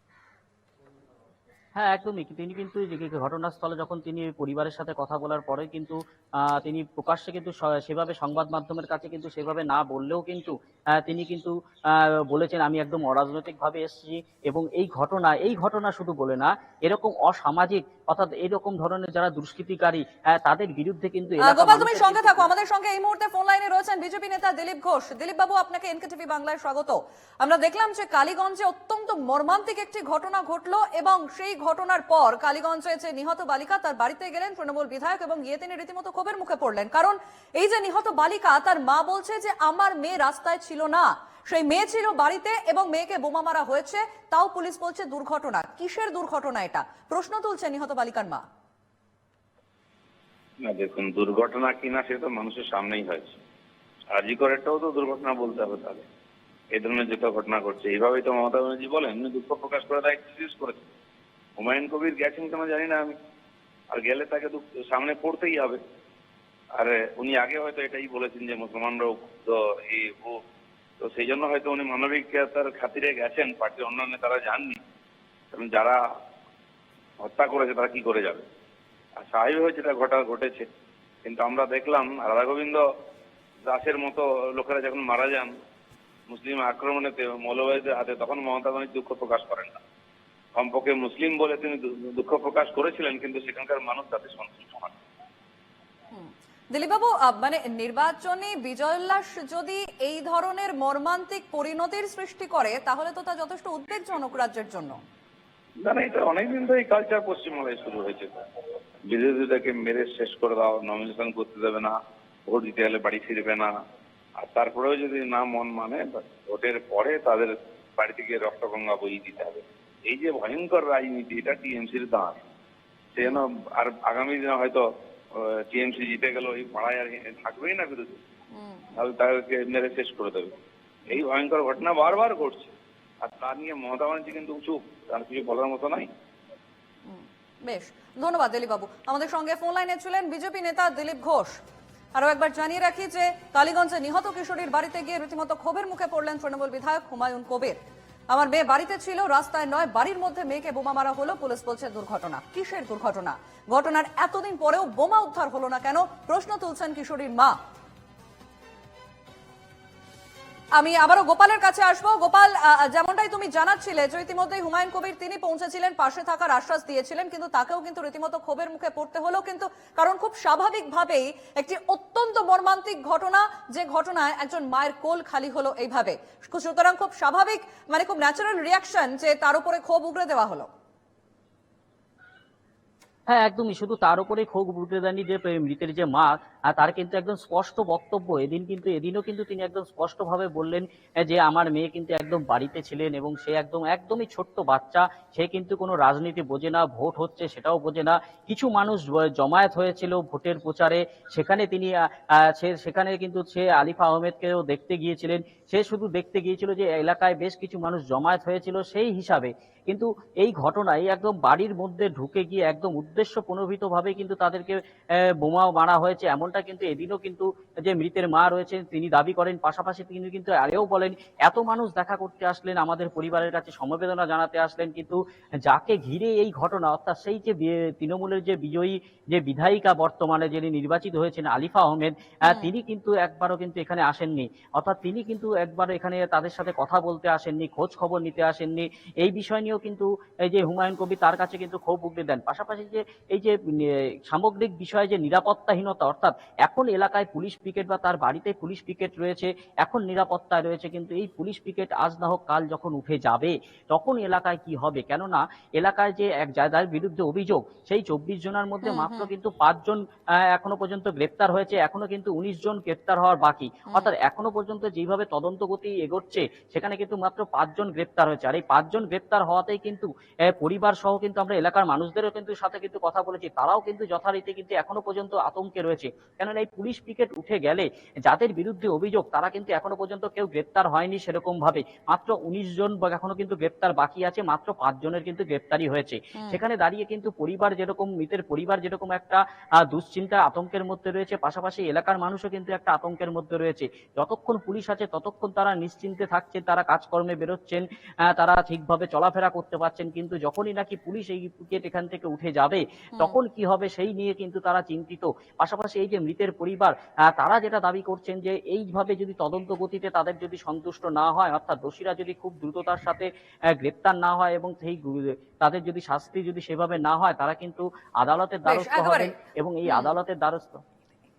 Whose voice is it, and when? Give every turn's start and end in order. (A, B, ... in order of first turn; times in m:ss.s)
0:01.8-0:22.5 A
0:21.4-0:48.4 B
0:50.6-0:53.4 C
0:54.1-0:56.0 C
0:56.7-1:00.8 C
1:01.6-1:03.1 C
1:03.9-1:05.8 C
1:06.8-1:10.4 C
1:11.0-1:14.8 C
1:15.5-1:16.0 C
1:17.2-1:18.4 C
1:19.2-1:20.7 C
1:21.2-1:22.8 C
1:23.7-1:25.5 C
1:26.3-1:29.8 C
1:30.6-1:35.0 C
1:36.1-1:45.0 B
1:45.8-1:48.3 C
1:49.1-1:51.9 C
1:52.5-1:53.7 C
1:54.4-2:02.4 C
2:03.1-2:04.8 C
2:05.4-2:08.2 C
2:08.5-2:08.9 B
2:09.0-2:10.6 C
2:11.1-2:16.1 C
2:17.1-2:21.6 B
2:22.2-2:27.8 B
2:28.3-2:37.6 B
2:40.8-3:00.7 B
3:03.3-3:34.8 A
3:35.4-4:20.0 A
4:18.8-4:19.3 B
4:20.5-5:20.8 A
4:46.4-4:46.6 B
5:18.7-5:19.3 B
5:19.9-5:20.1 B